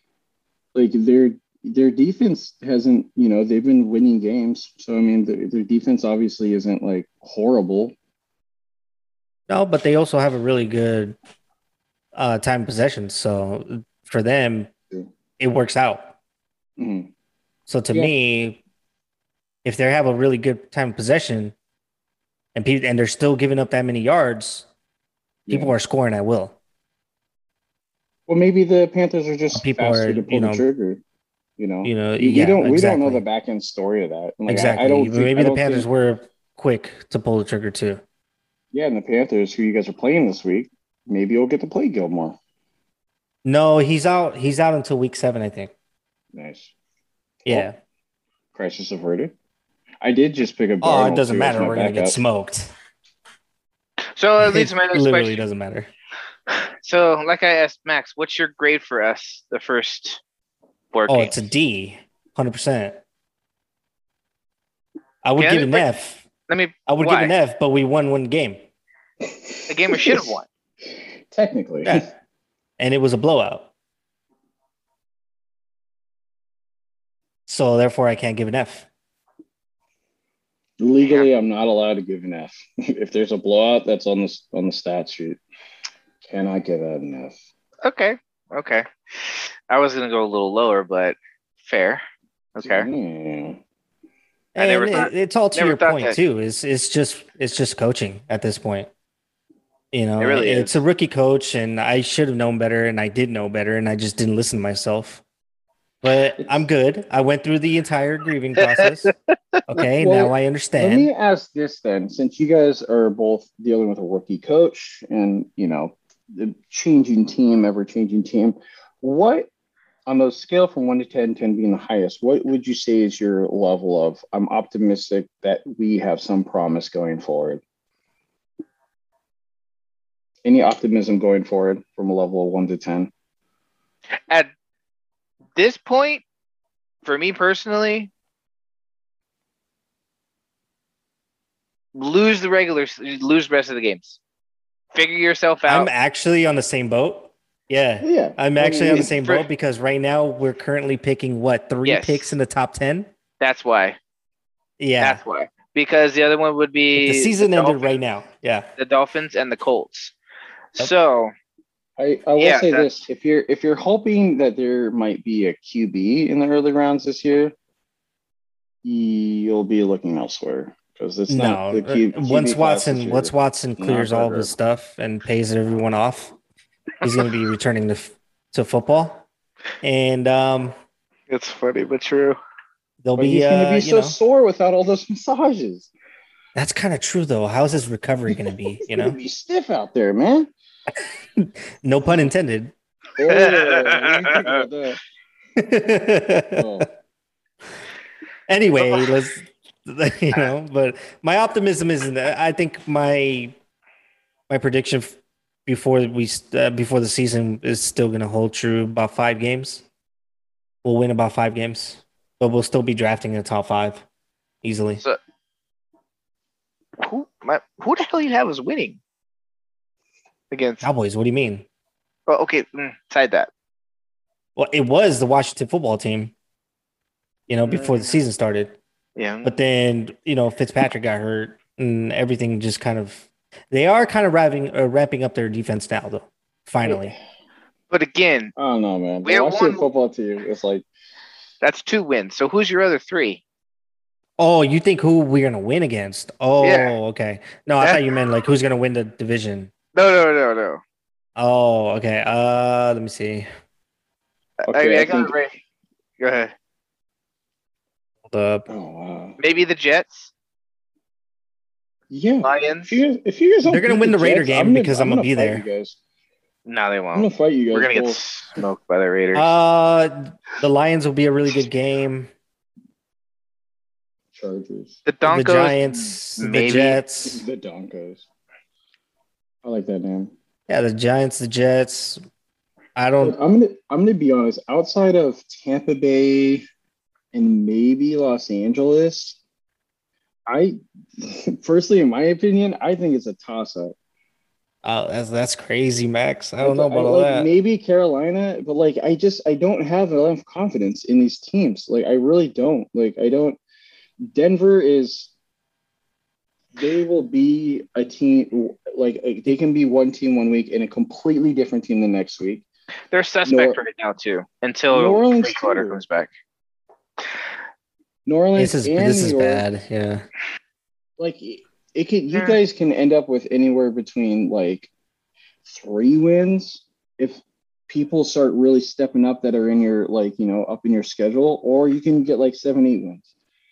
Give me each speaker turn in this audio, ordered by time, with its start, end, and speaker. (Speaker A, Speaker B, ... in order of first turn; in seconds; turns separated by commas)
Speaker A: 0.8-8.0, Speaker B: 9.5-11.2, Speaker B: 12.1-14.7, Speaker B: 15.4-16.1, Speaker A: 16.8-17.1, Speaker B: 17.7-18.6, Speaker B: 19.6-21.5, Speaker B: 22.6-24.7, Speaker A: 25.5-25.7, Speaker B: 25.5-26.6, Speaker A: 28.3-31.0, Speaker B: 29.5-30.6, Speaker A: 31.6-35.9, Speaker B: 31.9-33.2, Speaker B: 34.5-38.0, Speaker A: 38.7-42.4, Speaker B: 43.5-45.7, Speaker A: 46.3-46.7, Speaker A: 47.4-47.7, Speaker B: 47.5-47.7, Speaker A: 48.5-49.3, Speaker A: 50.0-52.2, Speaker B: 50.8-52.7, Speaker C: 54.2-55.4, Speaker B: 54.4-55.9, Speaker C: 56.8-60.2, Speaker C: 60.9-61.3, Speaker B: 61.1-63.0, Speaker B: 65.2-66.3, Speaker C: 65.4-65.8, Speaker C: 66.5-67.3, Speaker B: 66.9-68.6, Speaker A: 69.2-70.3, Speaker C: 69.7-70.5, Speaker A: 71.3-72.1, Speaker B: 72.8-73.7, Speaker B: 77.5-78.9, Speaker A: 80.8-85.4, Speaker C: 81.0-81.3, Speaker A: 86.2-87.4, Speaker C: 87.8-92.0, Speaker C: 92.6-92.9, Speaker A: 92.6-93.6, Speaker B: 94.5-98.9, Speaker C: 94.6-96.2, Speaker B: 99.9-105.2, Speaker C: 100.2-100.8, Speaker B: 106.0-109.1, Speaker A: 106.4-106.6, Speaker C: 108.6-109.6, Speaker B: 109.7-111.1, Speaker A: 110.0-119.5, Speaker A: 120.1-127.6, Speaker A: 130.4-133.1, Speaker C: 135.6-136.2, Speaker C: 137.1-138.1, Speaker C: 141.9-144.2, Speaker C: 144.9-145.9, Speaker B: 145.7-153.1, Speaker A: 148.0-149.2, Speaker C: 151.8-152.3, Speaker C: 153.4-154.0, Speaker B: 154.8-155.2, Speaker C: 155.0-157.9, Speaker B: 157.0-158.7, Speaker C: 158.8-160.1, Speaker C: 160.8-161.3, Speaker A: 162.0-167.5, Speaker C: 162.4-162.8, Speaker A: 168.8-174.5, Speaker B: 171.3-176.3, Speaker B: 177.0-179.2, Speaker B: 179.8-180.7, Speaker C: 181.3-182.4, Speaker B: 183.0-184.2, Speaker A: 183.2-185.9, Speaker B: 186.6-189.2, Speaker A: 188.8-190.5, Speaker B: 191.3-192.7, Speaker A: 193.2-195.0, Speaker C: 193.3-194.6, Speaker B: 195.6-196.7, Speaker A: 196.5-196.9, Speaker B: 198.5-203.6, Speaker B: 204.5-209.8, Speaker B: 210.8-214.0, Speaker B: 214.6-215.0, Speaker C: 217.0-219.0, Speaker C: 220.5-220.9, Speaker B: 220.8-221.7, Speaker C: 222.3-223.5, Speaker B: 224.6-226.3, Speaker B: 227.5-228.8, Speaker C: 227.7-228.2, Speaker C: 229.2-229.5, Speaker B: 229.4-237.2, Speaker A: 236.8-237.1, Speaker C: 237.9-238.5, Speaker A: 238.6-240.8, Speaker C: 239.2-239.8, Speaker C: 241.6-243.4, Speaker B: 244.4-249.7, Speaker C: 246.6-246.9, Speaker C: 247.8-248.1, Speaker C: 249.9-250.8, Speaker B: 251.4-253.5, Speaker C: 254.7-255.5, Speaker A: 254.7-255.4, Speaker C: 256.2-256.5, Speaker B: 258.3-258.7, Speaker A: 258.7-259.4, Speaker C: 259.4-260.3, Speaker A: 262.1-266.0, Speaker C: 262.4-263.0, Speaker B: 263.7-265.6, Speaker C: 266.7-269.5, Speaker A: 267.1-268.2, Speaker B: 269.4-272.3, Speaker A: 274.4-275.0, Speaker C: 275.1-275.8, Speaker B: 275.3-277.4, Speaker C: 276.4-277.0, Speaker A: 277.2-278.2, Speaker A: 279.6-280.3, Speaker B: 280.7-282.2, Speaker B: 283.0-283.4, Speaker A: 283.2-286.6, Speaker A: 287.3-289.4, Speaker A: 290.5-293.9, Speaker B: 294.8-297.5, Speaker A: 296.6-303.6, Speaker A: 304.2-305.3, Speaker A: 306.8-312.6, Speaker C: 313.1-316.3, Speaker A: 313.4-313.8, Speaker A: 314.9-316.0, Speaker A: 318.3-319.6, Speaker B: 318.6-320.2, Speaker A: 321.2-324.9, Speaker C: 322.3-322.6, Speaker A: 325.6-333.2